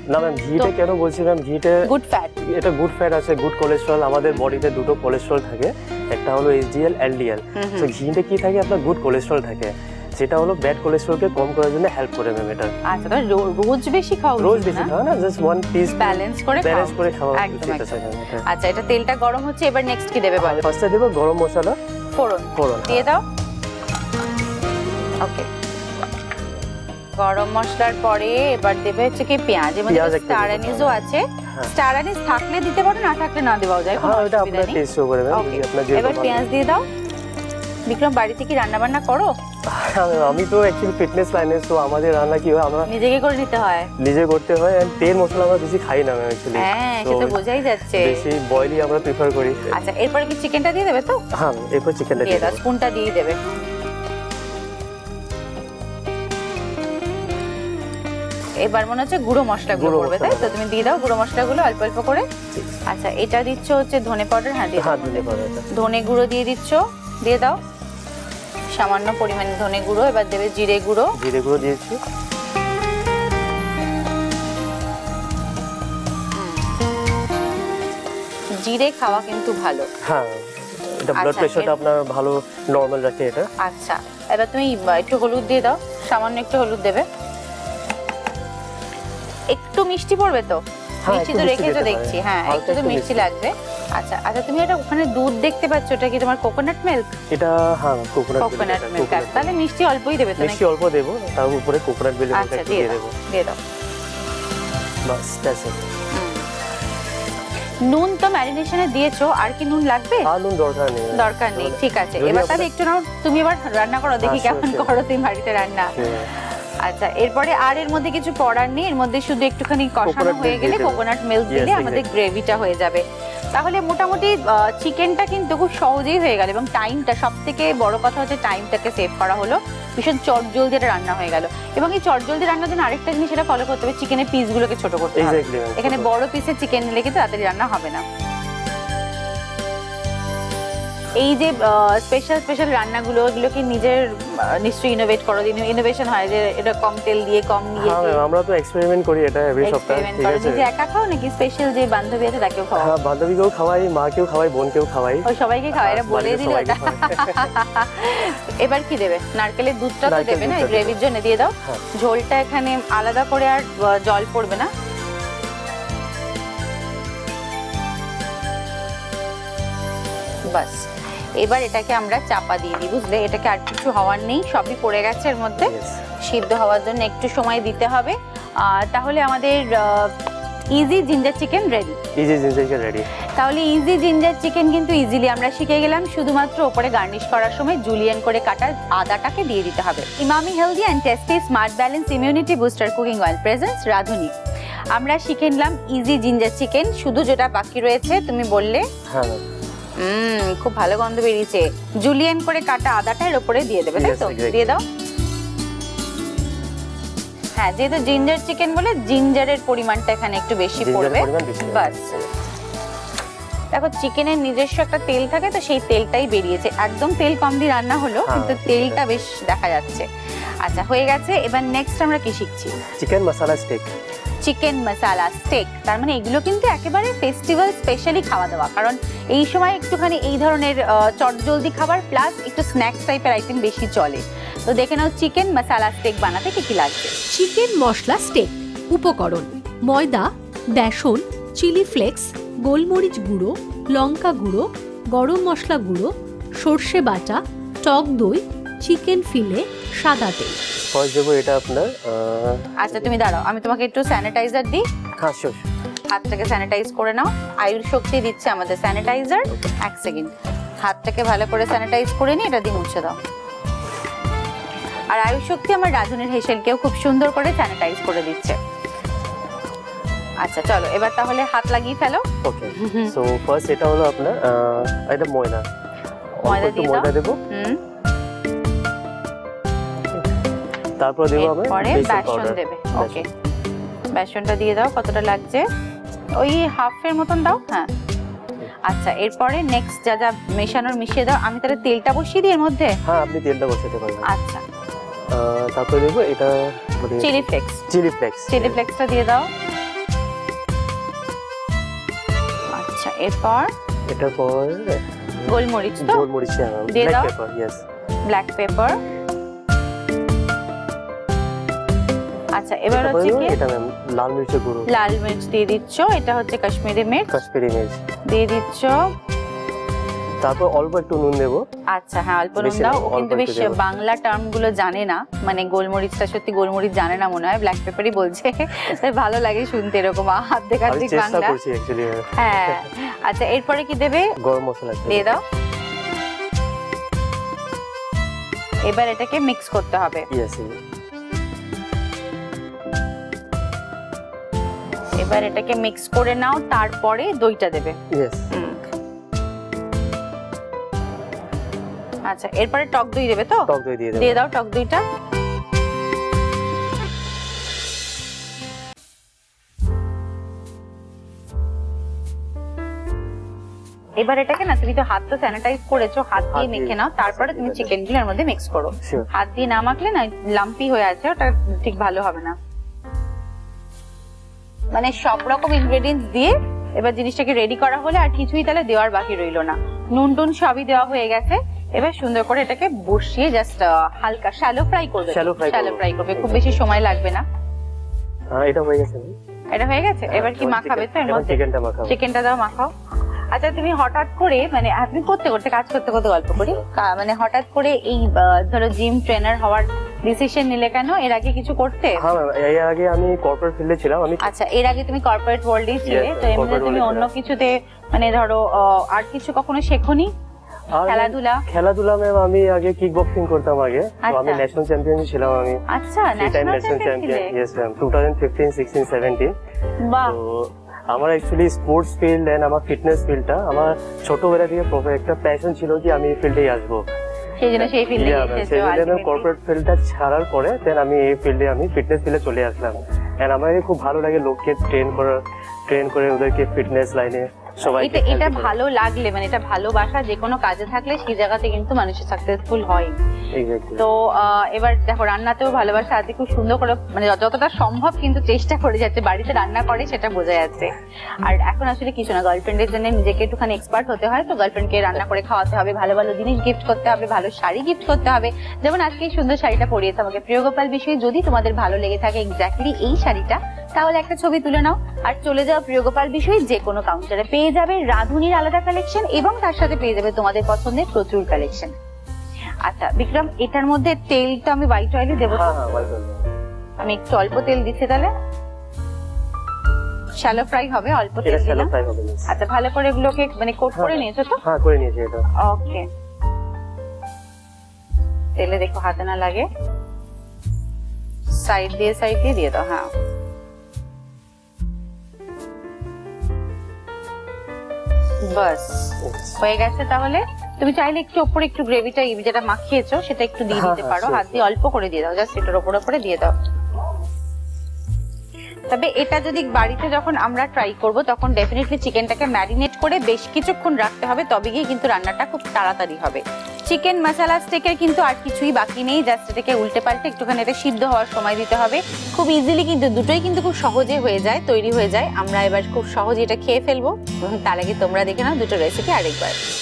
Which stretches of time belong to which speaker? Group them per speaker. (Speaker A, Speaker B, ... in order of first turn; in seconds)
Speaker A: 0.1-1.9, 2.4-12.7, 14.4-18.4, 20.4-21.8, 22.6-23.1, 29.9-31.7, 34.0-36.4, 39.7-42.9, 44.0-49.8, 51.3-52.6, 59.7-60.6, 64.8-65.7, 71.2-72.0, 80.0-83.5, 91.0-93.3, 97.3-99.5, 100.4-103.1, 105.0-105.8, 110.2-112.7, 114.2-114.9, 115.9-116.3, 120.0-122.2, 135.1-136.1, 147.8-150.7, 152.8-157.5, 160.1-161.0, 175.6-176.0, 182.2-183.1, 199.1-199.4, 203.9-204.8, 210.8-212.2, 218.2-219.0, 223.0-223.9, 250.9-253.1, 255.2-255.7, 272.4-275.6, 276.4-277.4, 281.0-283.3, 293.0-294.3, 295.3-298.8, 304.1-307.8, 312.9-314.9, 317.3-318.0, 320.4-321.6, 322.6-323.8, 330.9-332.8, 334.4-335.4, 340.3-340.7, 348.1-348.5, 353.7-354.4, 366.5-367.9, 369.0-369.3, 385.3-386.8, 388.5-389.3, 390.3-392.1, 402.1-404.5, 406.0-407.3, 410.9-415.8, 416.4-419.5, 420.2-427.0, 427.8-438.7, 443.5-444.1, 475.5-476.5, 481.4-482.5, 483.9-485.4, 499.2-499.6, 503.7-504.7
Speaker B: 1.9-2.4, 7.6-7.9, 12.9-14.9, 15.9-20.6, 22.1-23.2, 25.2-25.5, 27.2-36.8, 37.9-39.3, 42.9-43.9, 46.5-48.2, 49.7-51.2, 52.2-53.4, 58.6-62.2, 62.9-67.6, 68.8-71.1, 76.4-76.6, 78.6-79.9, 81.2-81.7, 83.6-87.0, 89.5-97.1, 98.4-100.6, 102.3-103.6, 106.1-106.5, 107.8-110.3, 111.1-115.9, 116.8-138.0, 141.2-148.2, 149.6-152.9, 155.2-164.7, 170.5-170.8, 171.4-180.1, 180.7-182.0, 183.3-194.3, 194.9-198.8, 200.0-204.8, 207.6-212.1, 213.7-220.1, 220.6-222.7, 224.4-237.1, 252.8-254.8, 256.1-260.3, 260.8-263.1, 265.1-268.6, 270.4-272.2, 272.8-273.1, 276.4-277.8, 281.4-283.3, 284.1-285.6, 286.4-287.9, 288.9-293.0, 294.3-294.6, 297.2-297.8, 298.5-299.5, 302.8-303.7, 305.5-306.3, 306.9-307.3, 308.3-309.0, 312.6-313.6, 314.9-317.4, 318.3-319.0, 321.9-331.6, 332.4-334.3, 335.1-335.4, 338.9-340.2, 345.2-347.9, 348.5-348.8, 352.3-355.0, 364.2-372.6, 374.9-387.4, 389.7-392.9, 393.5-402.2, 404.4-410.3, 411.0-411.6, 414.2-414.6, 415.9-417.5, 420.0-420.4, 427.6-429.5, 437.9-443.1, 444.0-471.9, 472.8-476.1, 477.0-478.3, 480.4-481.9, 482.5-484.6, 485.6-486.1, 488.6-489.6, 491.5-493.1, 498.5-506.5, 508.9-529.5
Speaker C: 237.3-250.6